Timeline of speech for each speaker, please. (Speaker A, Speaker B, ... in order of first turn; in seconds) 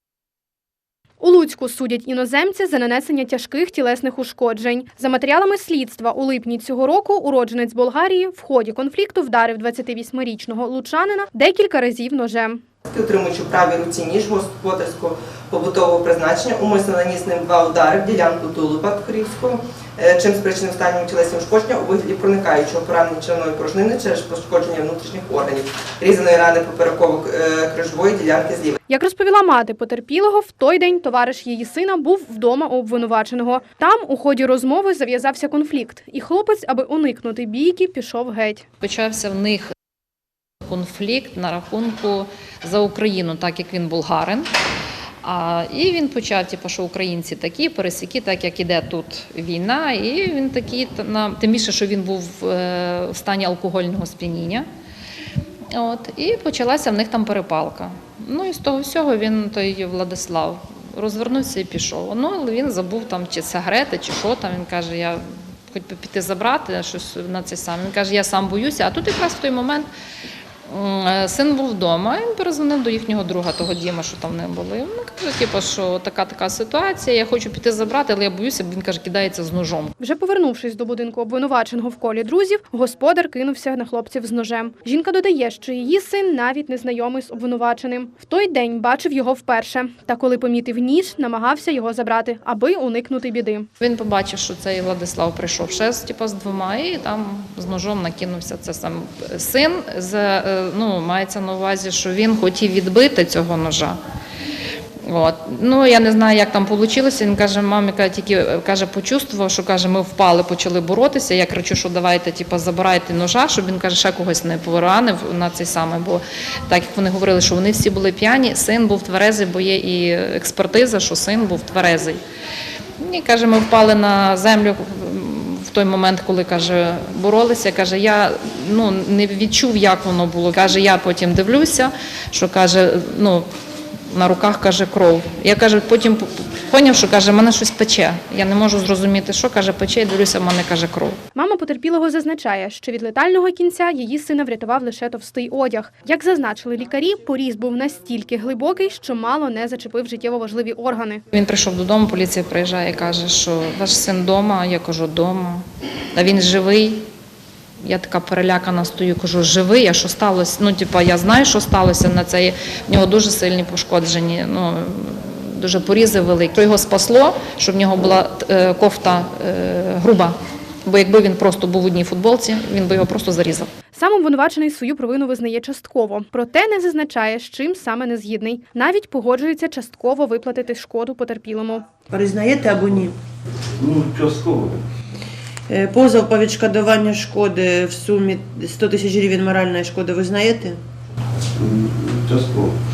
Speaker A: 1.2-12.6, 28.9-38.7, 80.0-93.7, 141.3-151.2, 173.9-181.9
Speaker B: 12.9-28.8
Speaker C: 38.8-39.7, 40.6-44.5, 45.2-54.7, 55.7-69.9, 70.7-79.9, 93.8-104.0, 105.0-122.2, 123.0-133.5, 134.1-141.2, 151.3-157.0, 157.8-173.7
Speaker D: 182.1-183.2, 185.7-190.8
Speaker E: 183.8-184.8, 191.6-192.8